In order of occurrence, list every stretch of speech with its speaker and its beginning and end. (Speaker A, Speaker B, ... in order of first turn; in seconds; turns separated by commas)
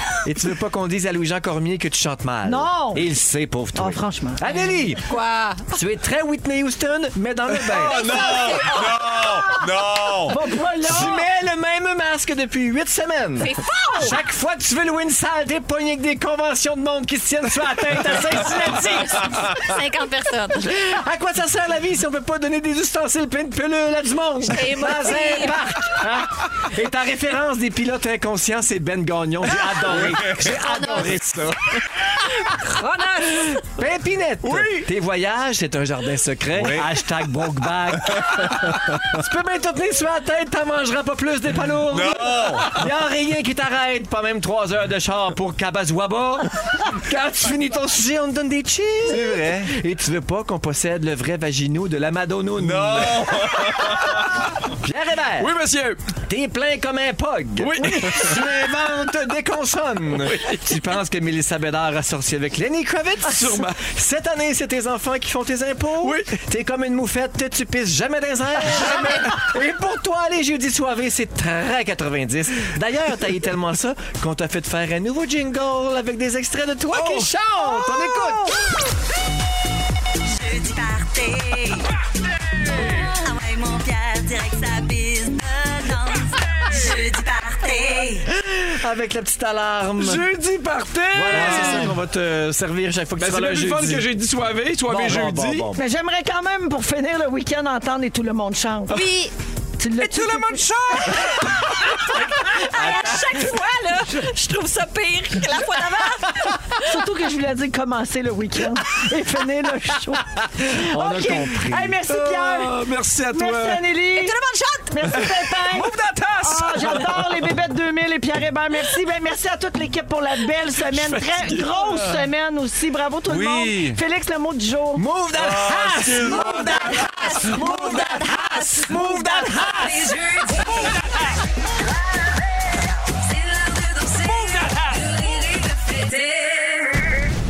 Speaker A: 0.2-5.1, Speaker B: 2.4-3.0, Speaker B: 3.8-4.5, Speaker C: 5.1-5.6, Speaker A: 5.7-8.2, Speaker D: 7.7-11.1, Speaker C: 7.9-8.6, Speaker B: 8.1-9.6, Speaker B: 10.3-11.2, Speaker A: 10.8-19.5, Speaker C: 13.4-14.2, Speaker C: 18.9-20.7, Speaker A: 20.7-31.8, Speaker C: 24.5-25.6, Speaker D: 29.9-30.4, Speaker C: 30.4-31.1, Speaker C: 32.3-33.6, Speaker A: 33.6-53.9, Speaker D: 34.4-34.9, Speaker D: 36.5-37.1, Speaker D: 38.0-39.2, Speaker D: 41.9-42.8, Speaker D: 49.1-49.7, Speaker D: 52.6-54.2, Speaker A: 54.8-55.5, Speaker E: 55.4-56.1, Speaker A: 56.2-78.5, Speaker E: 57.6-58.4, Speaker B: 57.8-58.1, Speaker E: 60.3-60.5, Speaker E: 66.0-66.4, Speaker E: 69.0-69.3, Speaker E: 76.9-77.7, Speaker F: 80.2-81.9, Speaker F: 82.6-88.3, Speaker A: 88.3-90.3, Speaker E: 90.0-92.0, Speaker A: 91.1-94.1, Speaker D: 91.4-91.6, Speaker E: 93.2-95.7, Speaker A: 94.9-95.8, Speaker B: 95.8-99.0, Speaker C: 98.9-99.3, Speaker B: 99.8-101.3, Speaker E: 99.9-101.4, Speaker C: 101.1-107.0, Speaker A: 102.7-103.1, Speaker B: 106.6-114.3, Speaker A: 110.7-112.0, Speaker E: 112.1-113.8, Speaker C: 114.1-115.3, Speaker B: 114.9-125.0, Speaker E: 115.6-117.3, Speaker E: 120.8-121.9, Speaker D: 123.3-124.0, Speaker A: 124.9-130.0, Speaker D: 125.3-127.0, Speaker B: 126.2-129.2, Speaker F: 127.4-131.0, Speaker F: 133.2-137.1